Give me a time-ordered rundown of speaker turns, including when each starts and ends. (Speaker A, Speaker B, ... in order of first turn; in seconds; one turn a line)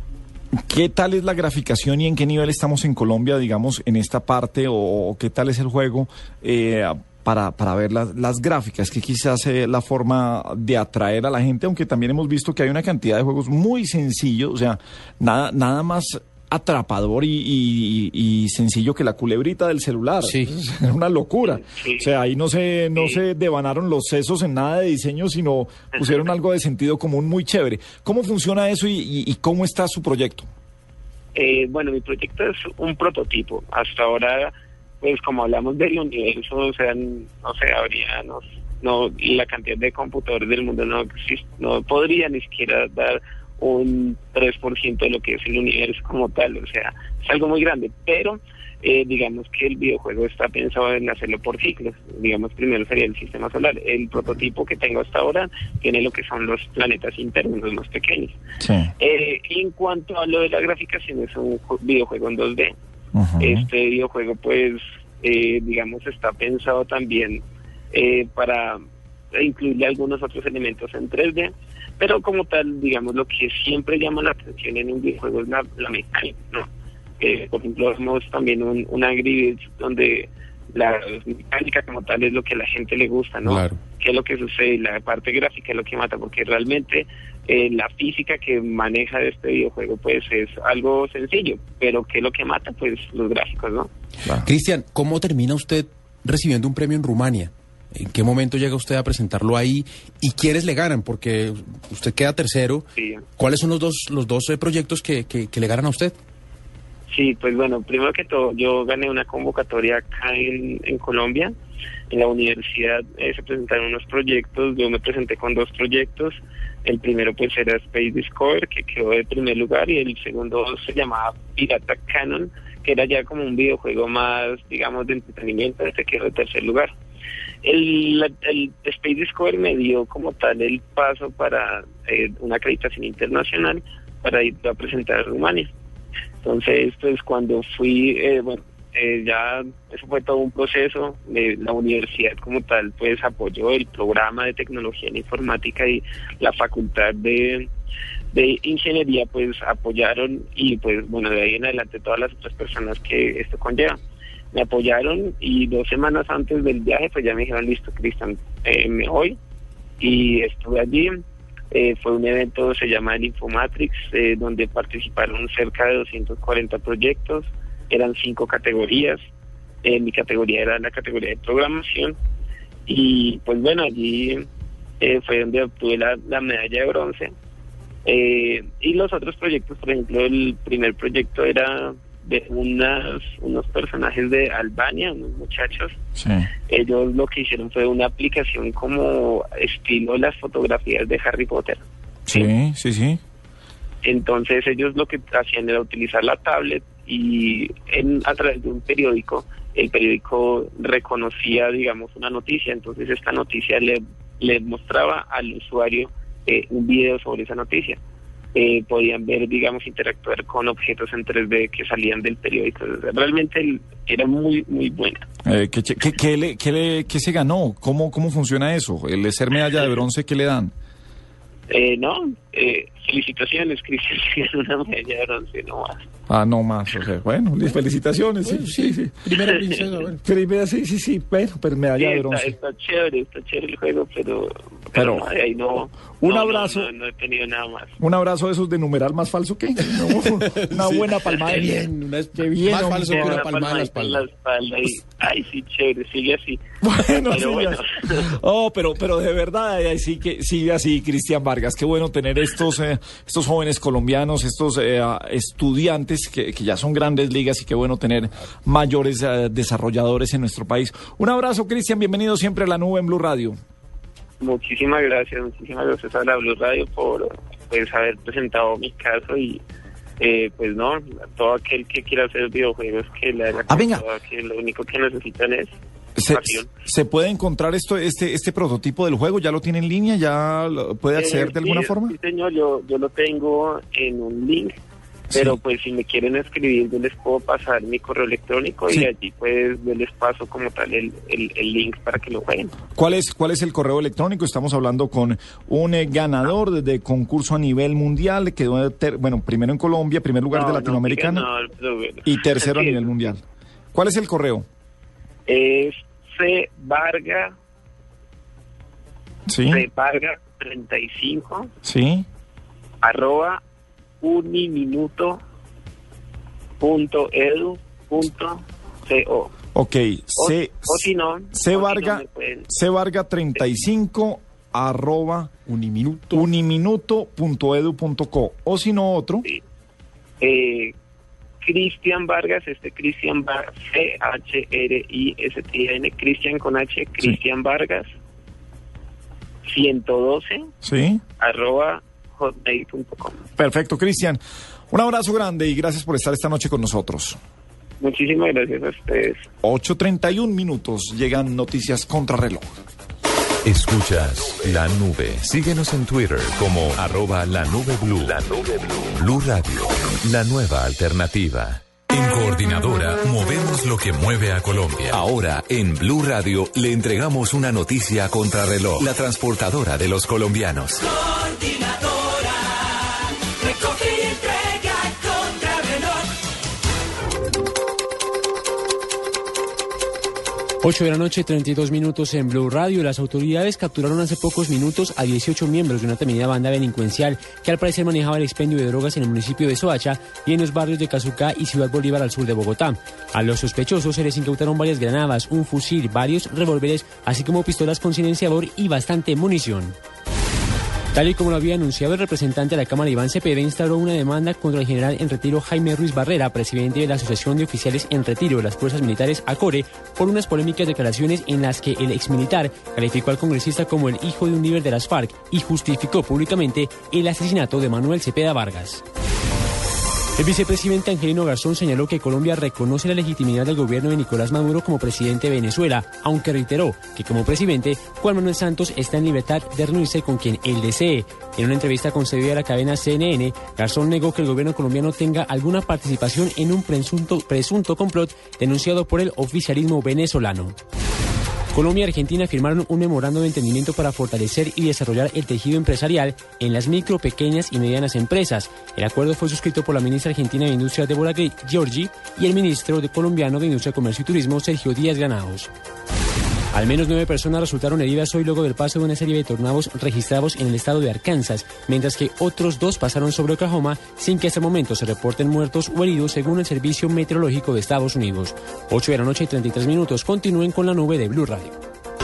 Speaker A: 0.7-30.5
Speaker B: 20.3-20.5
Speaker C: 21.4-22.1
Speaker C: 22.9-23.2
Speaker C: 31.4-58.4
Speaker A: 58.6-58.9
Speaker C: 59.0-62.7
Speaker A: 63.1-63.7
Speaker C: 63.4-67.4
Speaker C: 67.9-68.8
Speaker C: 69.3-76.7
Speaker C: 77.2-93.9
Speaker B: 83.5-83.8
Speaker B: 94.4-102.8
Speaker C: 103.0-103.2
Speaker B: 103.4-106.2
Speaker C: 107.1-111.5
Speaker C: 112.1-126.9
Speaker C: 127.6-135.7
Speaker C: 136.4-147.7
Speaker C: 148.3-154.0
Speaker C: 154.5-159.4
Speaker C: 160.0-169.2
Speaker C: 169.8-172.2
Speaker C: 172.9-174.5
Speaker C: 175.0-177.3
Speaker C: 178.1-185.9
Speaker A: 186.2-186.5
Speaker C: 186.7-192.5
Speaker A: 192.3-193.2
Speaker C: 194.1-208.0
Speaker C: 208.6-215.2
Speaker A: 215.4-220.7
Speaker C: 221.7-226.1
Speaker A: 226.3-229.1
Speaker B: 228.4-230.2
Speaker A: 230.2-232.5
Speaker C: 232.0-237.9
Speaker A: 234.9-235.3
Speaker A: 236.2-236.9
Speaker A: 238.0-243.5
Speaker B: 240.5-244.2
Speaker C: 242.9-246.6
Speaker A: 246.8-263.6
Speaker C: 247.3-248.2
Speaker C: 264.4-269.6
Speaker C: 270.2-275.8
Speaker A: 273.7-274.0
Speaker A: 276.2-282.1
Speaker C: 276.3-276.7
Speaker C: 281.1-284.8
Speaker A: 285.3-285.6
Speaker C: 285.3-292.7
Speaker A: 292.9-301.5
Speaker C: 300.5-303.3
Speaker A: 302.2-303.4
Speaker A: 303.9-304.7
Speaker C: 305.5-307.6
Speaker A: 309.5-309.9
Speaker C: 309.7-311.7
Speaker A: 311.9-312.3
Speaker C: 313.0-313.6
Speaker C: 314.2-315.4
Speaker C: 316.8-319.5
Speaker A: 319.8-325.5
Speaker C: 320.4-322.7
Speaker B: 325.7-326.5
Speaker A: 326.3-329.4
Speaker C: 330.4-330.9
Speaker C: 331.6-338.1
Speaker C: 339.7-340.7
Speaker A: 340.8-341.2
Speaker C: 341.4-343.4
Speaker A: 343.6-344.4
Speaker A: 344.9-347.4
Speaker C: 348.0-349.5
Speaker A: 349.6-352.8
Speaker D: 353.6-371.0
Speaker E: 380.8-399.9
Speaker E: 401.1-419.0
Speaker E: 420.4-440.8
Speaker E: 441.7-455.7
Speaker E: 456.7-471.8